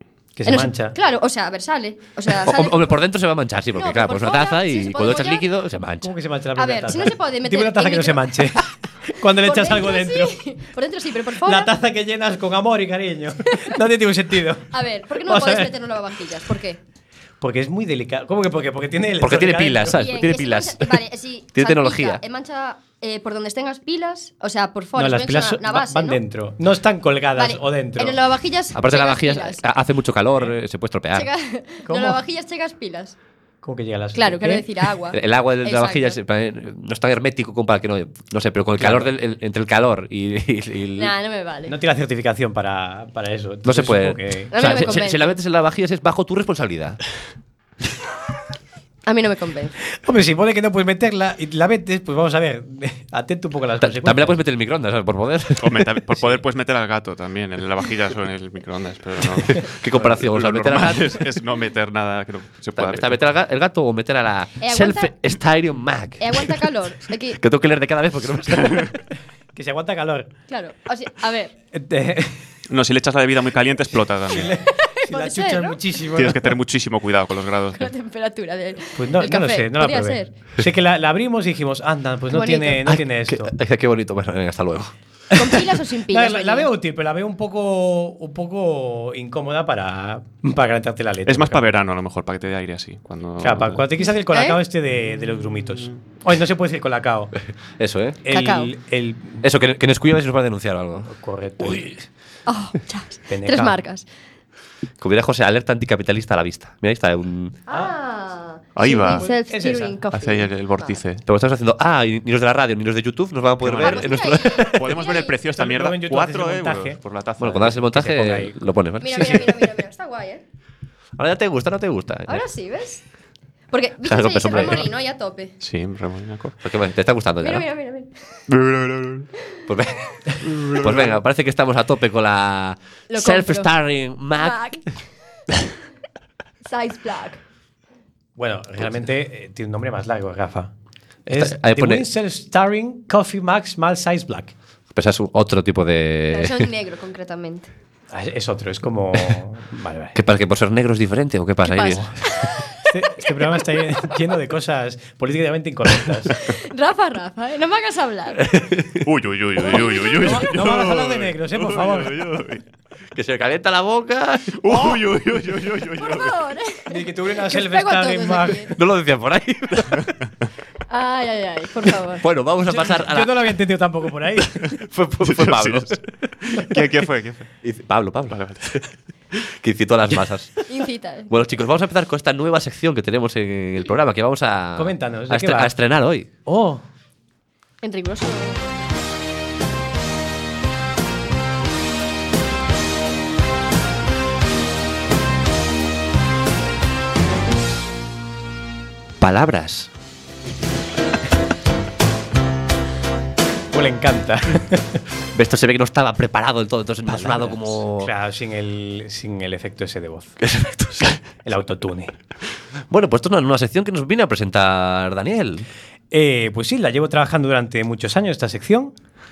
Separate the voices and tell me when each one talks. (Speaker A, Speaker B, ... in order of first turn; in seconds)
Speaker A: 0.3-0.9, 6.0-10.3, 11.4-15.8, 17.4-20.1, 24.9-28.2, 31.9-32.2, 33.6-34.9, 38.8-39.1, 41.7-45.0, 50.0-54.4, 69.5-70.3, 71.7-72.4, 74.3-76.5, 79.0-83.5, 85.5-91.7, 93.4-97.3, 98.2-99.4, 101.1-102.0, 103.3-103.8, 108.8-110.0, 115.5-117.0, 117.8-118.7, 124.5-124.8, 138.4-140.7, 141.3-144.5, 148.1-150.2, 152.8-156.3, 160.1-162.3, 166.9-168.7, 172.7-174.8, 184.8-185.7, 186.4-186.8, 203.7-205.0, 207.1-210.3, 211.4-212.1, 216.1-218.9
Speaker B: 0.4-3.0, 3.7-5.5, 6.5-8.4, 9.4-11.7, 14.7-16.8, 19.9-26.2, 27.3-29.7, 31.1-33.1, 34.1-36.2, 41.0-41.7, 44.5-45.4, 49.0-49.7, 64.6-65.2, 66.2-67.4, 70.5-71.5, 74.8-75.8, 77.7-80.3, 82.3-82.8, 85.3-86.7, 94.3-94.6, 98.3-98.7, 102.5-104.1, 107.7-111.0, 113.8-115.4, 119.0-120.4, 122.3-123.0, 123.7-125.5, 127.4-128.1, 133.1-133.7, 134.4-134.8, 136.6-137.4, 146.3-147.7, 151.6-152.5, 156.4-158.4, 166.0-168.7, 170.9-172.2, 180.7-181.3, 187.8-188.7
Speaker C: 2.3-6.1, 19.2-21.0, 21.5-22.2, 28.7-31.3, 35.1-41.1, 43.6-47.0, 53.8-55.9, 59.6-61.2, 62.8-66.6, 67.3-69.0, 82.8-84.9, 97.8-98.2, 99.4-101.9, 105.0-107.6, 111.2-114.9, 117.4-119.7, 121.2-122.4, 124.0-124.9, 126.6-127.7, 129.7-134.6, 141.3-142.1, 144.9-146.7, 150.1-152.1, 158.4-159.0, 163.1-165.0, 168.7-170.1, 172.2-173.5, 174.8-176.0, 177.6-178.8, 179.3-180.5, 181.3-186.3, 199.2-199.9, 205.3-208.1, 210.4-211.2, 212.9-215.7
Speaker D: 55.6-63.2, 72.7-74.5, 76.1-77.9, 91.2-93.8, 108.7-109.3, 110.1-111.2, 113.6-117.8, 125.6-126.5, 128.5-129.2, 130.4-131.1, 159.0-162.6, 164.6-166.3, 175.2-177.5, 178.3-178.8